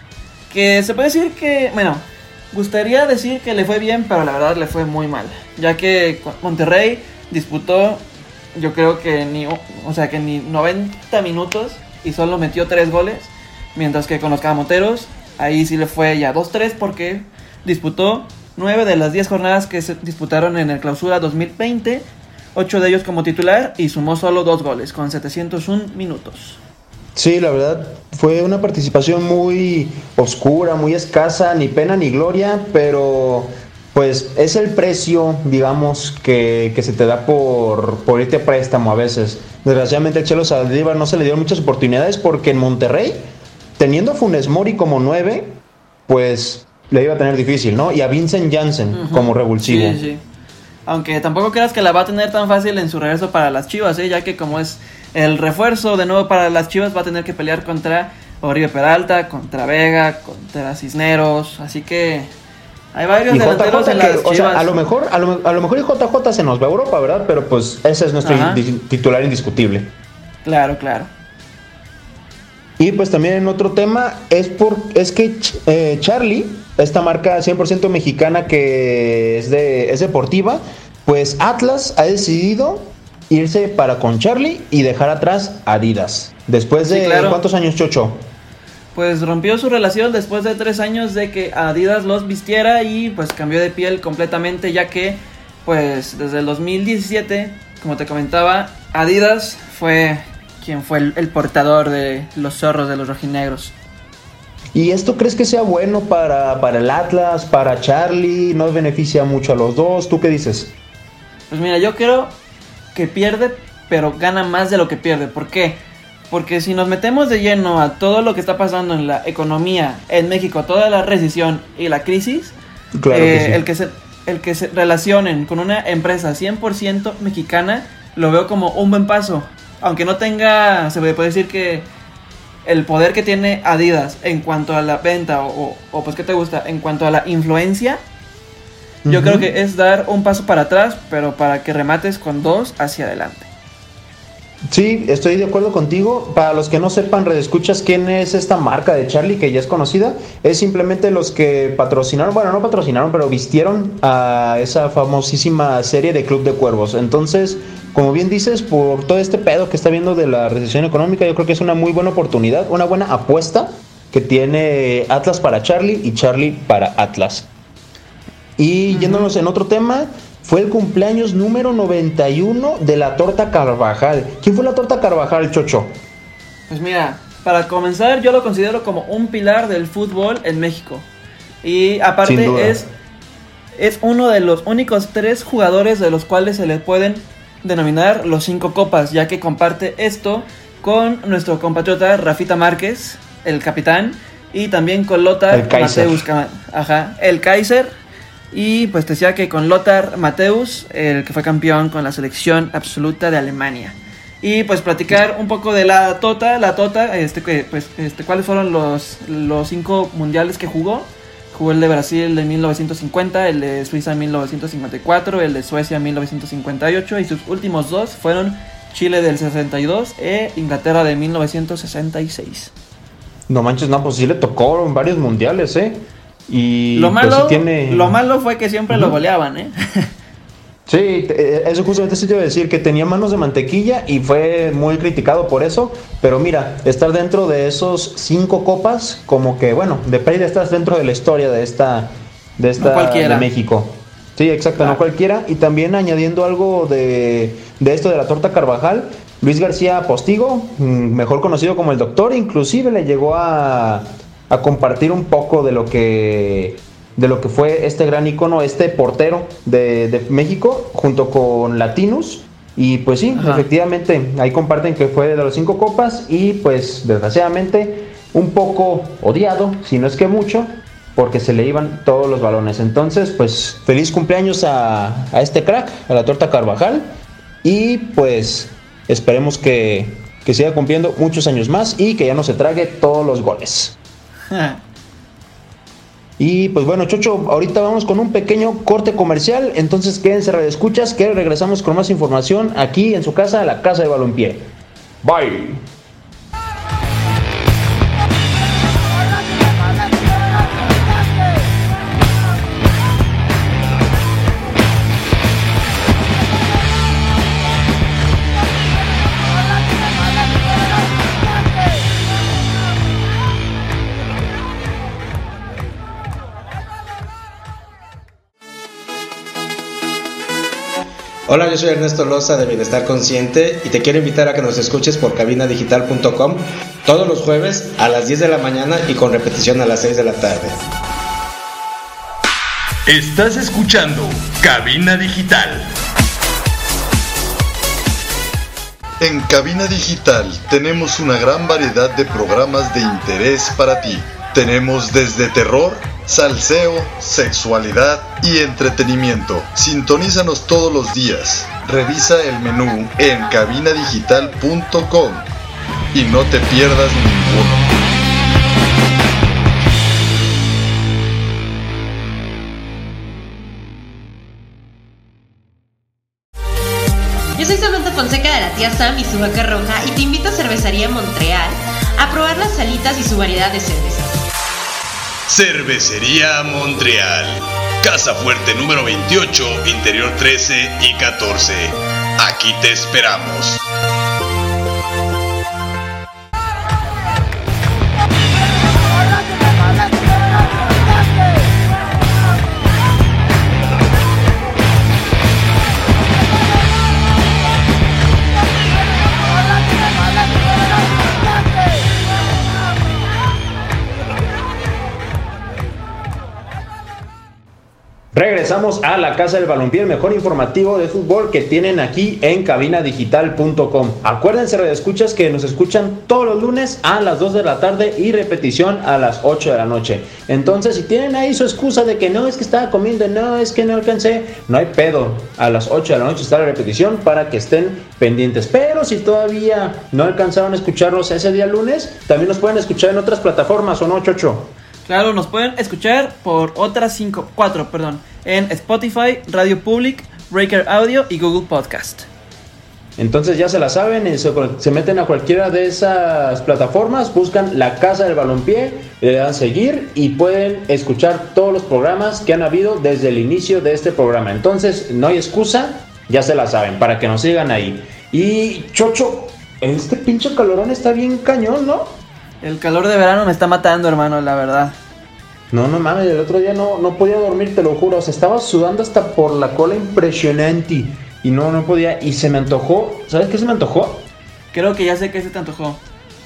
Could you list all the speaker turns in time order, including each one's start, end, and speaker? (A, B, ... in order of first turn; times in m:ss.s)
0:00.5-0:26.6 A
0:27.2-0:50.0 B
0:48.9-0:50.2 A
0:50.9-1:02.3 A
1:02.9-1:04.8 A
1:03.3-1:09.9 B
1:08.2-1:08.6 A
1:10.4-1:11.1 A
1:12.8-1:28.3 B
1:26.9-1:27.4 A
1:29.0-1:43.7 A
1:44.7-1:50.7 B
1:51.5-1:52.4 A
1:52.9-1:55.8 A
1:56.3-2:02.6 A
2:03.0-2:03.6 B
2:03.1-2:11.9 A
2:12.6-2:18.0 A
2:19.0-2:19.5 B
2:19.1-2:23.5 A
2:24.7-2:47.5 B
2:48.6-2:56.0 B
2:48.9-2:49.3 A
2:56.7-3:01.1 A
3:01.6-3:02.9 A
3:02.2-3:02.9 B
3:03.8-3:17.9 A
3:15.5-3:16.2 B
3:18.5-3:42.7 A
3:43.5-3:48.2 B
3:46.9-3:50.1 A
3:48.9-3:49.2 B
3:50.9-4:44.0 B
4:02.8-4:03.5 A
4:23.4-4:23.7 A
4:44.5-4:44.8 A
4:46.4-4:55.9 B
5:21.5-5:30.8 C
5:33.1-5:35.9 D
5:39.2-5:55.5 E
5:56.1-5:57.9 E
6:07.6-6:14.4 F
6:15.5-6:23.8 D
6:48.3-7:14.7 B
7:15.1-7:22.3 A
7:23.2-7:42.2 B
7:42.6-7:45.0 A
7:45.7-7:54.3 B
7:54.7-7:56.0 A